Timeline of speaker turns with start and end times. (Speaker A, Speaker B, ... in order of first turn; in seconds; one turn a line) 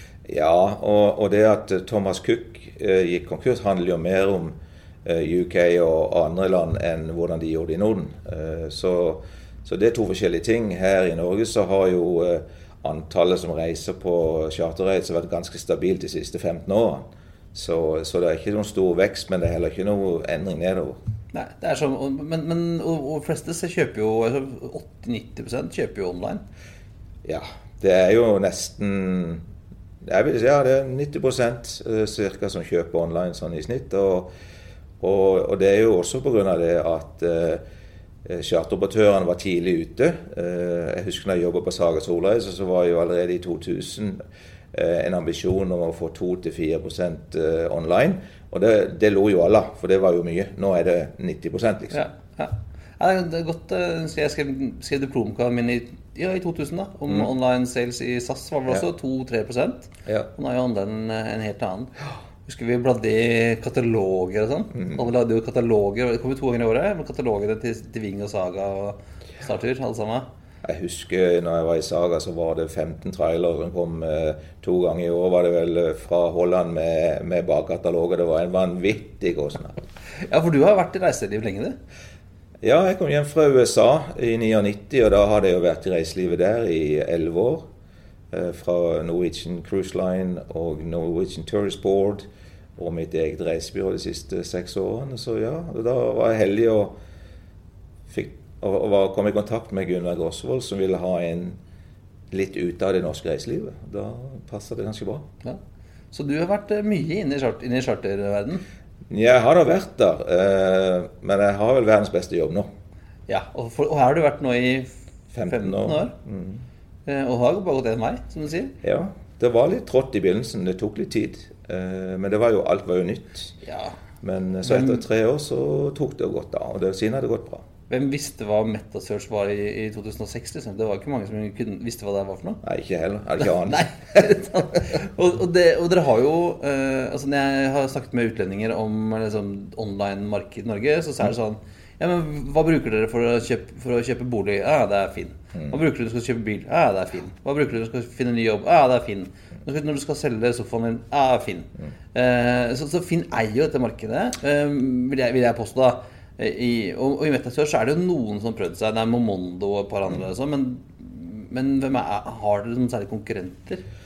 Speaker A: 0.2-21.0
Speaker B: 21.3-26.4
Speaker A: 27.2-29.4
Speaker A: 30.0-34.3
Speaker A: 35.0-37.6
Speaker A: 38.2-44.2
Speaker A: 44.7-52.0
Speaker B: 51.9-61.9
Speaker B: 62.5-70.3
Speaker A: 70.6-79.8
Speaker B: 80.3-81.8
Speaker A: 82.6-87.7
Speaker A: 88.3-97.0
Speaker A: 98.1-101.6
Speaker A: 102.3-105.3
Speaker B: 106.1-108.6
Speaker A: 109.1-112.7
Speaker B: 113.3-114.9
Speaker A: 115.3-116.6
Speaker B: 115.4-116.1
Speaker B: 117.0-118.8
Speaker A: 118.8-123.6
Speaker B: 123.7-124.0
Speaker A: 124.2-127.6
Speaker B: 124.6-125.0
Speaker B: 127.9-132.6
Speaker A: 132.6-134.4
Speaker B: 133.7-163.8